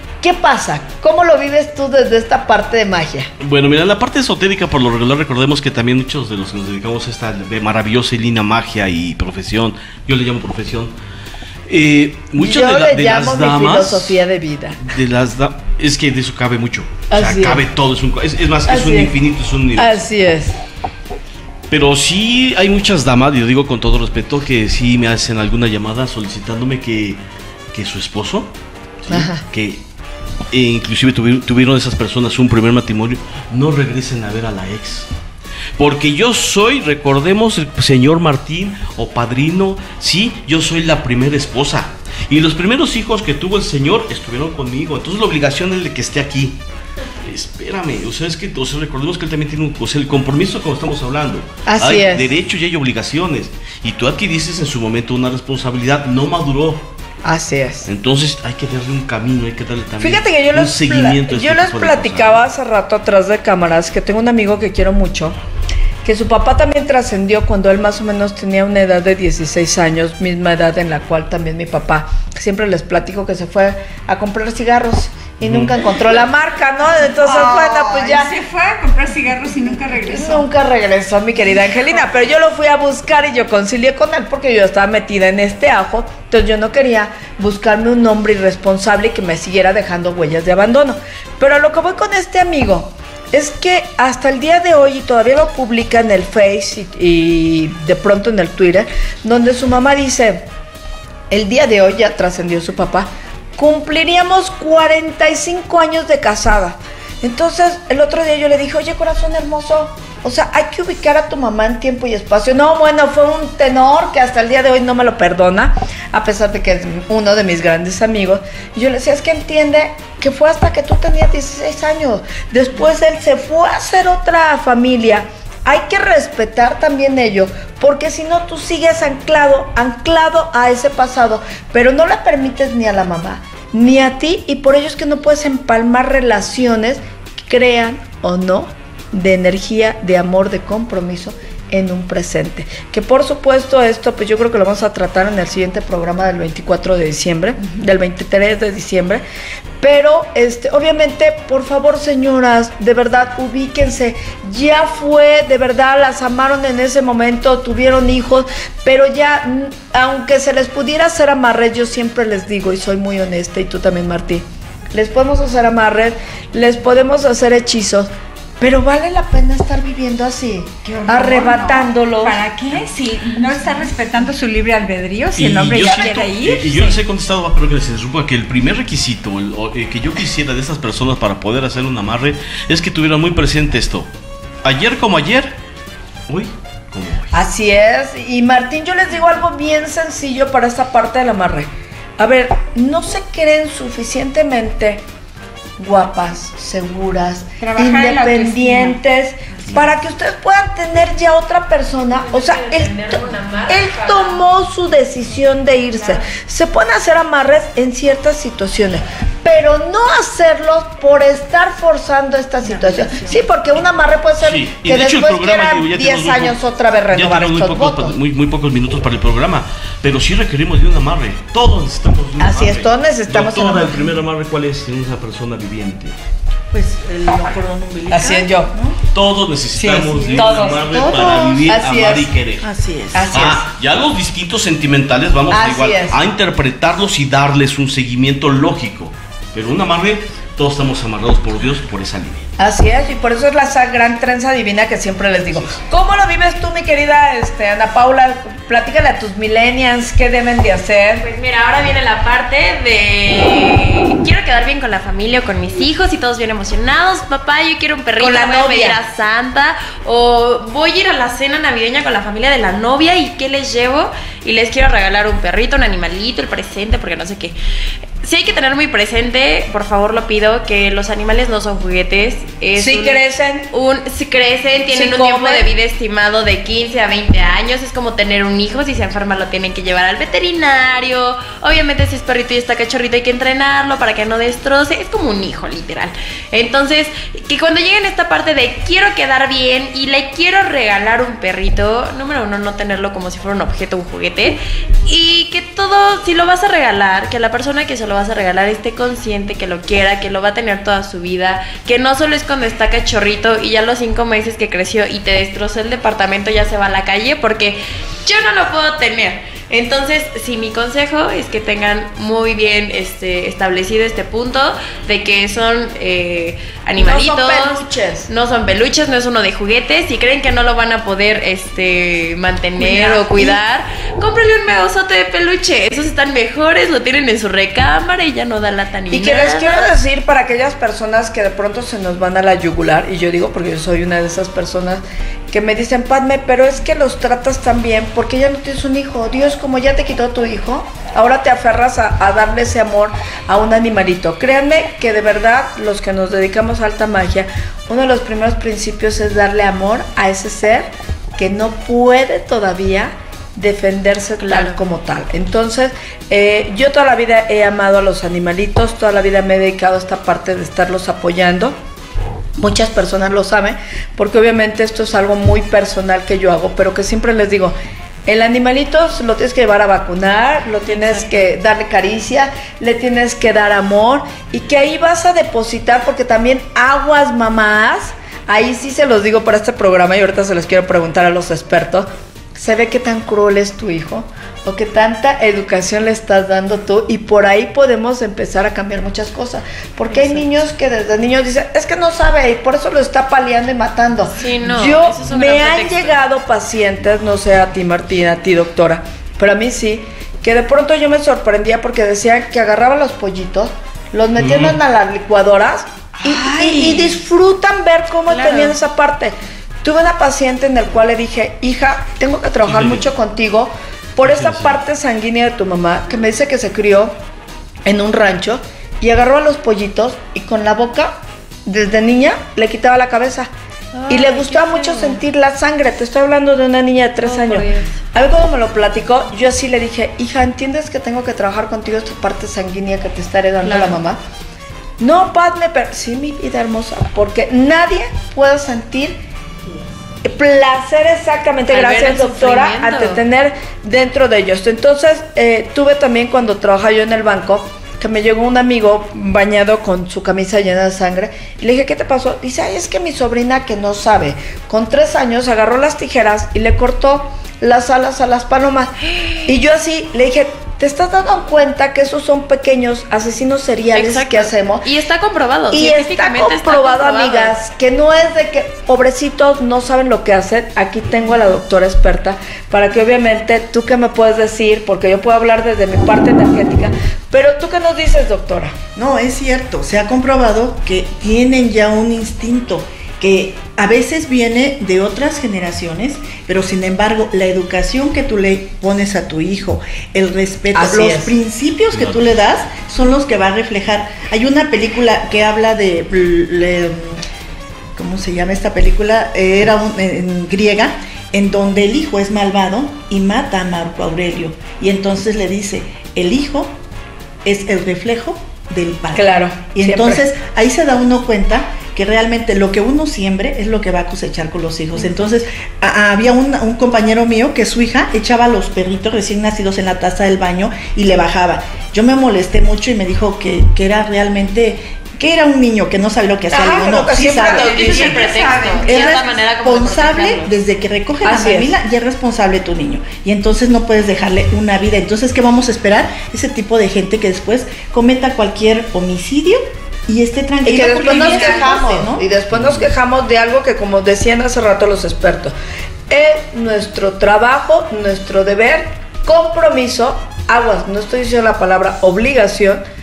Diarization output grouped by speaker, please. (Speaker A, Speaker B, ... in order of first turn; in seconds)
Speaker A: 0.2-3.3, 12.3-14.8, 17.1-17.6, 18.7-19.1, 19.7-20.6, 29.1-29.4, 51.7-52.3, 57.2-57.9, 60.0-65.4, 66.0-78.3, 80.1-100.5, 101.3-149.2, 149.8-172.4, 187.3-195.0, 195.8-218.2, 222.4-224.1, 228.1-228.7, 229.7-232.3, 233.1-233.7, 235.5-236.2, 242.6-251.2, 258.2-259.0, 272.7-273.6, 274.9-275.7, 317.0-318.3, 322.8-323.6, 329.1-361.8, 362.6-417.1, 417.8-423.5, 424.1-434.2, 435.0-439.2, 440.2-458.9, 459.4-464.9, 465.7-478.7, 490.7-491.3, 509.1-510.2, 526.5-528.2, 531.2-531.7, 540.6-545.5, 546.1-552.8
Speaker B: 3.4-10.9, 11.7-14.2, 14.8-20.0, 21.7-27.2, 27.7-28.5, 29.0-29.8, 30.5-35.1, 35.8-46.6, 47.2-56.9, 57.9-62.4, 75.4-75.7, 175.3-184.1, 184.6-185.5, 186.3-187.4, 214.4-216.6, 217.1-226.1, 229.1-232.7, 233.3-242.4, 404.4-404.8, 412.6-413.1, 414.2-414.8, 491.9-492.2, 542.5-542.9
Speaker C: 77.2-80.5, 170.8-177.0, 197.6-199.0, 406.2-407.1, 527.4-529.1, 541.0-541.6
Speaker D: 202.1-204.4, 251.2-267.5, 268.2-329.9, 354.4-354.8, 390.1-390.4, 394.4-396.1, 408.3-408.8, 423.9-425.2, 427.2-428.0, 433.6-434.0, 441.7-443.2, 459.2-459.5, 463.9-467.5, 527.4-530.5
Speaker E: 212.6-213.5, 226.7-229.0, 230.1-231.3, 232.6-233.4, 478.9-497.2, 497.9-506.7, 507.4-528.1, 528.9-542.2